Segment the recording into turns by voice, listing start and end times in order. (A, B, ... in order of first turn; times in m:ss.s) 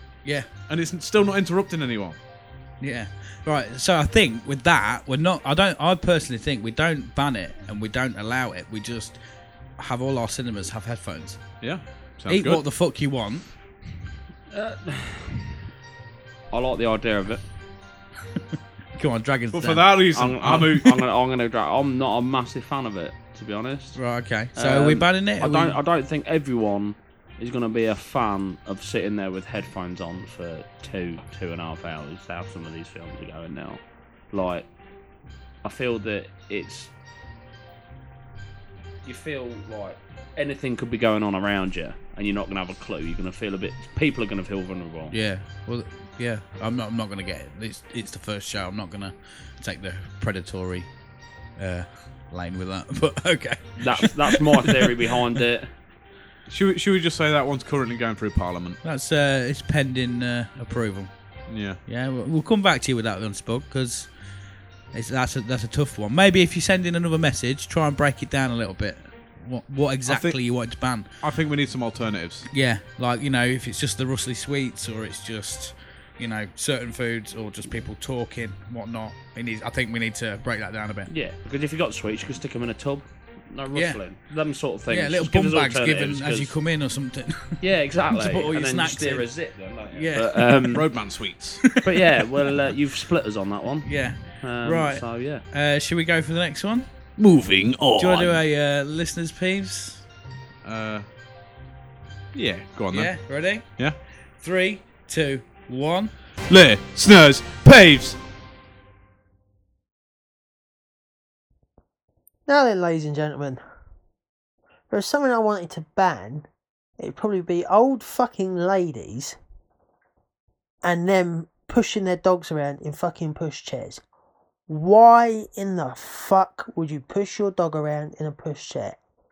0:00.7-0:02.2 A
0:02.8-0:09.2 B
0:09.8-0:11.4 B
0:11.6-0:12.6 A
0:12.3-0:13.5 B
0:14.5-0:15.5 C
0:16.5-0:17.4 C
0:18.9-0:19.9 B
0:19.5-0:21.0 A
0:20.1-0:24.0 C
0:23.9-0:25.8 B
0:24.5-0:34.7 C
0:35.6-0:36.9 C
0:39.0-0:45.1 C
0:45.1-0:50.9 B
0:51.6-0:55.1 B
0:53.8-0:55.7 C
0:56.5-0:58.8 A
0:58.8-1:01.1 B
1:01.5-1:01.8 A
1:01.8-1:04.1 B
1:04.9-1:11.1 B
1:10.1-1:10.4 A
1:11.2-1:12.5 A
1:12.5-1:21.1 B
1:21.1-1:26.5 C
1:23.7-1:24.0 B
1:24.9-1:29.3 B
1:27.6-1:30.8 C
1:29.9-1:30.6 B
1:30.7-1:31.7 A
1:31.6-1:32.0 B
1:31.8-1:35.4 C
1:33.8-1:36.8 B
1:37.2-1:38.4 A
1:38.0-1:40.0 B
1:40.6-1:41.0 A
1:42.3-1:43.1 A
1:42.9-1:43.8 B
1:44.4-1:46.1 B
1:46.5-1:48.2 A
1:52.5-1:53.6 D
1:54.9-1:56.5 D
1:57.0-1:59.4 D
2:00.8-2:04.0 D
2:04.7-2:09.0 D